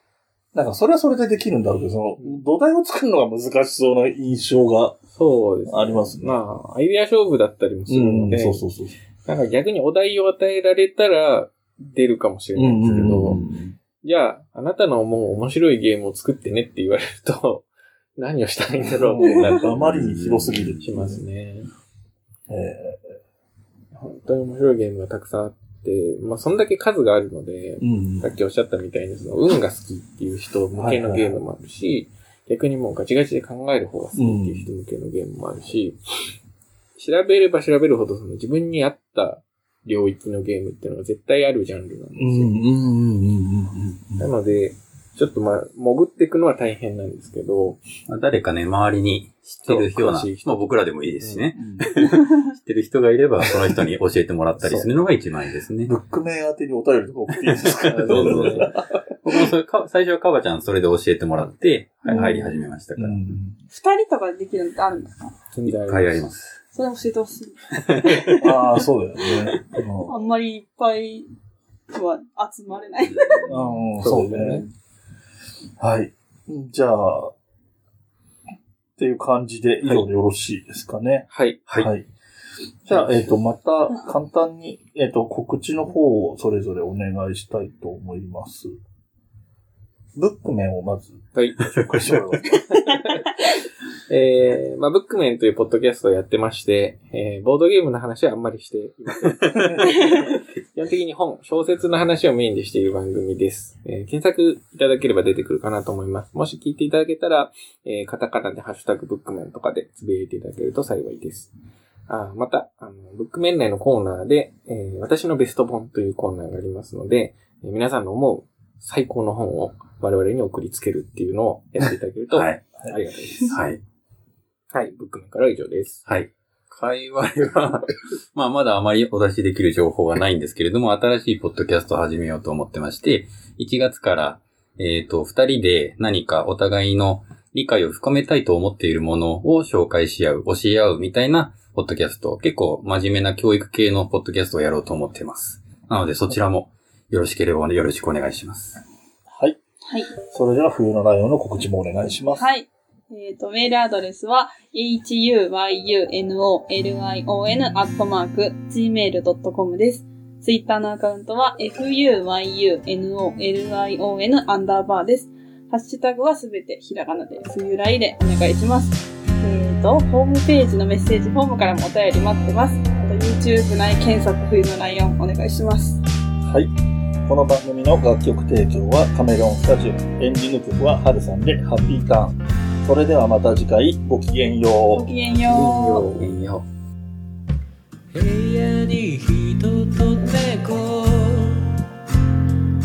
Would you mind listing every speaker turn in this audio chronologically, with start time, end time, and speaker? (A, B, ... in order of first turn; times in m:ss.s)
0:00.5-0:05.0 A
0:05.2-0:08.6 B
0:05.7-0:06.3 A
0:07.9-0:08.9 A
0:09.3-0:13.4 B
0:12.6-0:13.8 A
0:14.0-0:17.7 B
0:18.2-0:19.8 B
0:19.1-0:21.2 A
0:19.2-0:19.5 C
0:19.7-0:20.8 D
0:20.8-0:21.7 B
0:22.5-0:23.1 A
0:24.0-0:36.0 B
0:27.8-0:28.3 A
0:30.8-0:31.4 A
0:34.2-0:34.7 A
0:37.0-0:42.6 B
0:42.2-0:44.3 A
0:44.2-0:47.8 B
0:48.1-0:55.9 D
0:49.6-0:51.5 B
0:51.6-0:52.0 A
0:55.9-0:59.0 A
0:57.4-1:03.2 D
0:57.8-0:58.8 B
1:02.1-1:02.7 C
1:03.0-1:03.6 A
1:03.7-1:05.4 C
1:05.5-1:06.2 B
1:05.7-1:06.6 D
1:06.7-1:08.9 C
1:07.8-1:08.3 D
1:08.4-1:10.2 A
1:10.1-1:11.3 C
1:11.9-1:13.6 C
1:13.1-1:13.6 D
1:13.5-1:14.7 A
1:14.0-1:14.7 B
1:15.8-1:17.3 A
1:19.0-1:22.1 A
1:21.3-1:21.6 B
1:22.9-1:28.8 A
1:22.9-1:23.4 B
1:30.2-1:32.8 A
1:31.3-1:31.7 B
1:31.6-1:32.2 D
1:32.7-1:33.2 B
1:34.1-1:51.5 B
1:52.1-2:03.6 B
2:02.3-2:02.6 D
2:03.4-2:03.8 D
2:04.7-2:06.0 B
2:06.1-2:28.8 D
2:29.9-2:30.1 C
2:30.2-2:32.5 A
2:32.4-2:56.0 C
2:56.4-2:56.7 A
2:57.3-3:05.1 A
3:04.9-3:06.2 C
3:05.5-3:06.6 D
3:05.5-3:06.2 B
3:08.1-3:11.7 E